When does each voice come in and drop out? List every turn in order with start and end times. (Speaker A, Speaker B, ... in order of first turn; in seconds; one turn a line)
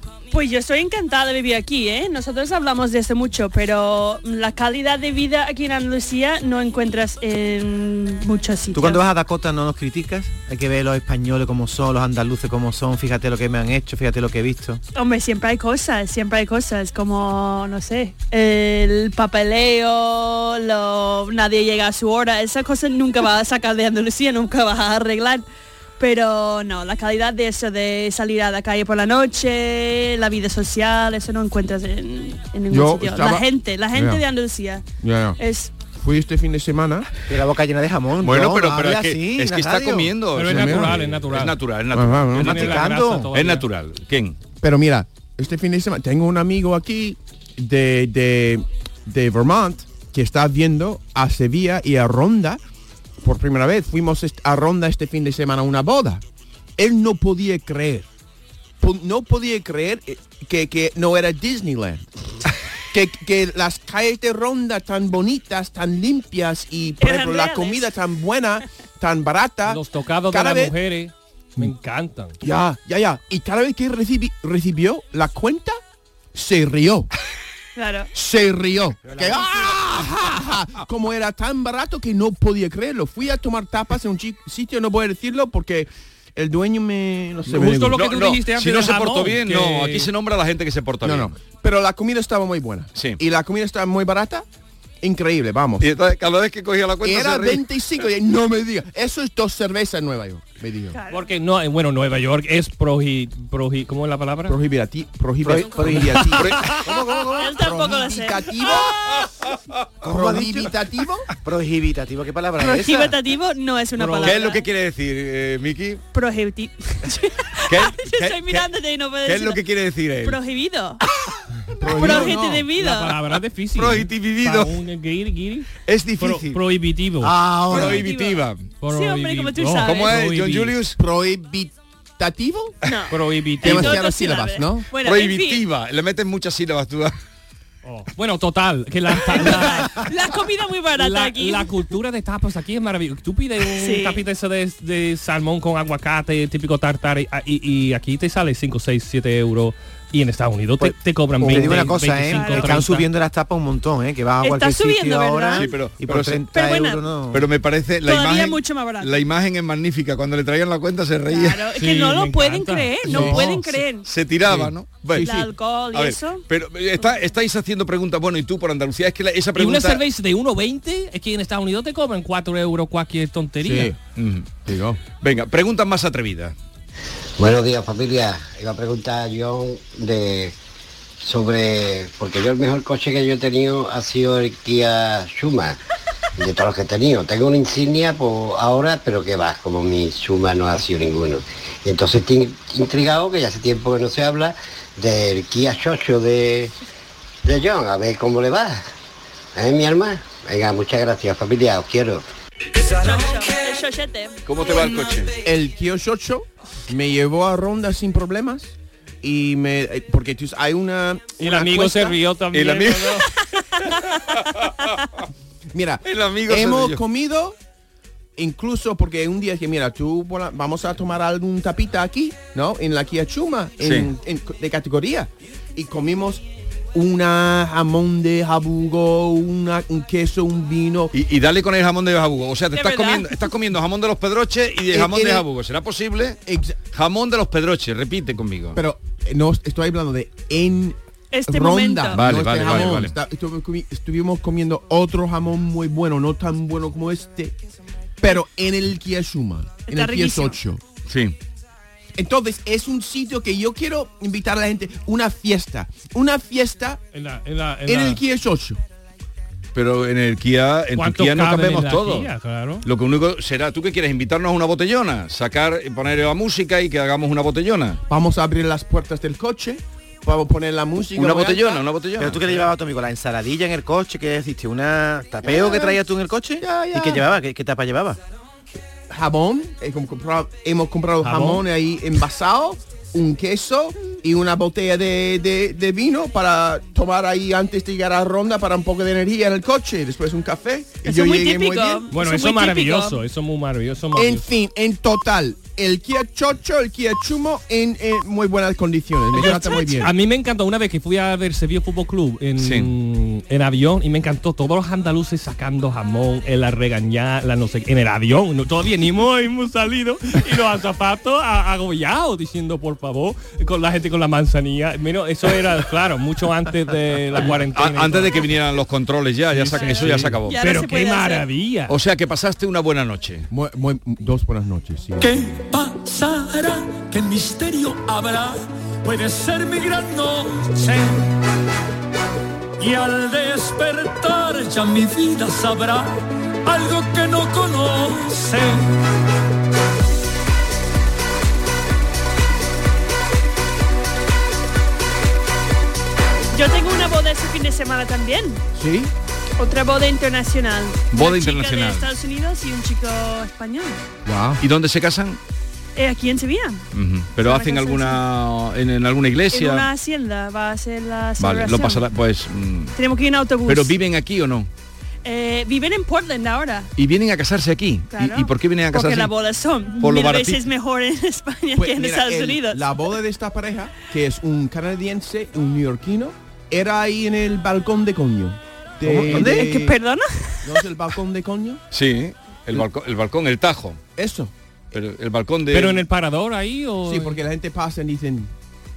Speaker A: 0.3-9.0
Speaker B: 8.7-14.8
Speaker A: 15.0-25.4
Speaker A: 26.0-34.8
Speaker C: 32.7-34.2
Speaker C: 35.0-35.4
Speaker A: 35.4-35.8
Speaker C: 35.9-37.1
Speaker B: 37.3-40.1
Speaker D: 38.2-44.4
Speaker E: 40.4-41.6
Speaker C: 40.5-40.9
Speaker C: 41.9-42.5
Speaker E: 42.4-43.7
Speaker B: 42.4-43.3
Speaker C: 44.6-52.6
Speaker C: 53.2-56.2
Speaker C: 56.8-58.1
Speaker C: 58.8-62.1
Speaker C: 62.9-70.8
Speaker A: 67.0-67.9
Speaker E: 69.7-72.4
Speaker C: 72.4-75.8
Speaker C: 76.3-77.1
Speaker A: 77.8-78.1
Speaker C: 78.1-88.0
Speaker E: 87.5-90.1
Speaker D: 87.9-91.3
Speaker C: 91.0-94.5
Speaker C: 95.0-95.9
Speaker D: 95.8-97.6
Speaker C: 97.0-101.0
Speaker A: 100.9-101.2
Speaker E: 101.1-104.6
Speaker C: 104.5-109.0
Speaker B: 105.4-107.5
Speaker A: 107.4-108.9
Speaker B: 110.0-110.7
Speaker C: 110.0-111.3
Speaker B: 111.4-113.2
Speaker A: 112.6-114.6
Speaker D: 114.0-116.0
Speaker A: 116.1-119.6
Speaker D: 117.7-118.7
Speaker D: 119.2-120.4
Speaker A: 120.2-121.0
Speaker C: 121.8-122.6
Speaker E: 121.9-127.3
Speaker A: 122.0-123.1
Speaker D: 122.0-122.3
Speaker D: 123.8-124.8
Speaker D: 125.9-126.6
Speaker B: 127.2-128.0
Speaker D: 127.7-128.7
Speaker A: 127.7-130.2
Speaker E: 128.8-130.8
Speaker D: 129.8-131.0
Speaker C: 131.0-132.8
Speaker A: 132.8-135.6
Speaker E: 133.1-134.0
Speaker C: 133.7-134.8
Speaker D: 135.0-137.1
Speaker E: 137.8-140.0
Speaker A: 139.2-141.7
Speaker E: 140.9-153.1
Speaker A: 143.8-144.2
Speaker B: 150.8-157.5
Speaker A: 152.3-152.7
Speaker A: 154.4-155.7
Speaker D: 155.6-156.5
Speaker A: 156.5-157.0
Speaker D: 157.3-161.6
Speaker A: 158.1-159.2
Speaker A: 161.3-164.1
Speaker E: 161.7-163.8
Speaker C: 163.1-163.4
Speaker D: 164.1-165.3
Speaker A: 165.1-166.4
Speaker C: 165.2-165.4
Speaker D: 165.9-170.0
Speaker E: 169.6-173.9
Speaker C: 173.6-174.0
Speaker D: 174.2-174.5
Speaker C: 174.7-175.0
Speaker D: 175.2-176.5
Speaker F: 177.4-180.5
Speaker F: 181.2-185.8
Speaker F: 186.4-196.7
Speaker F: 197.4-198.8
Speaker F: 199.6-202.2
Speaker A: 203.0-204.3
Speaker D: 204.5-205.3
Speaker C: 205.4-212.1
Speaker E: 211.4-213.3
Speaker D: 212.5-213.2
Speaker C: 215.7-217.6
Speaker D: 216.0-217.0
Speaker C: 218.4-226.4
Speaker D: 223.8-224.1
Speaker C: 226.9-231.1
Speaker D: 231.1-236.4
Speaker A: 232.7-233.3
Speaker C: 234.9-235.5
Speaker C: 236.5-236.8
Speaker D: 236.9-238.8
Speaker C: 238.8-240.9
Speaker A: 241.3-242.2
Speaker C: 241.5-247.6
Speaker D: 242.1-243.2
Speaker C: 248.2-250.8
Speaker A: 249.8-250.6
Speaker D: 251.1-251.3
Speaker C: 252.2-257.0
Speaker E: 257.1-258.2
Speaker C: 257.9-258.8
Speaker D: 259.8-262.3
Speaker E: 261.0-262.9
Speaker D: 262.8-268.0
Speaker C: 268.1-271.8
Speaker D: 271.1-272.7
Speaker B: 272.2-278.2
Speaker C: 275.4-276.0
Speaker C: 276.6-277.2
Speaker C: 279.1-292.1
Speaker E: 281.2-281.6
Speaker A: 291.0-293.2
Speaker E: 292.1-294.5
Speaker C: 294.2-300.1
Speaker E: 299.4-318.5
Speaker A: 299.4-300.1
Speaker D: 302.6-302.9
Speaker D: 317.7-320.6
Speaker E: 319.5-322.0
Speaker A: 319.8-321.5
Speaker D: 321.9-323.5
Speaker C: 323.5-325.3
Speaker G: 325.2-331.3
Speaker G: 332.8-339.0
Speaker A: 346.5-348.6
Speaker C: 348.8-349.1
Speaker A: 349.6-354.0
Speaker D: 351.1-352.1
Speaker C: 354.3-354.6
Speaker D: 354.6-355.4
Speaker A: 356.0-356.8
Speaker D: 356.9-359.9
Speaker A: 357.4-358.2
Speaker A: 359.5-362.0
Speaker D: 361.4-362.9
Speaker A: 363.0-363.9
Speaker D: 363.7-364.7
Speaker A: 365.2-366.9
Speaker D: 367.0-369.3
Speaker A: 368.1-372.9
Speaker D: 370.0-370.7
Speaker C: 371.8-380.0
Speaker B: 379.2-379.6
Speaker A: 379.3-380.8
Speaker C: 380.6-381.8
Speaker D: 381.9-384.0
Speaker C: 384.2-384.5
Speaker D: 384.9-386.1
Speaker E: 385.7-387.4
Speaker C: 387.0-388.5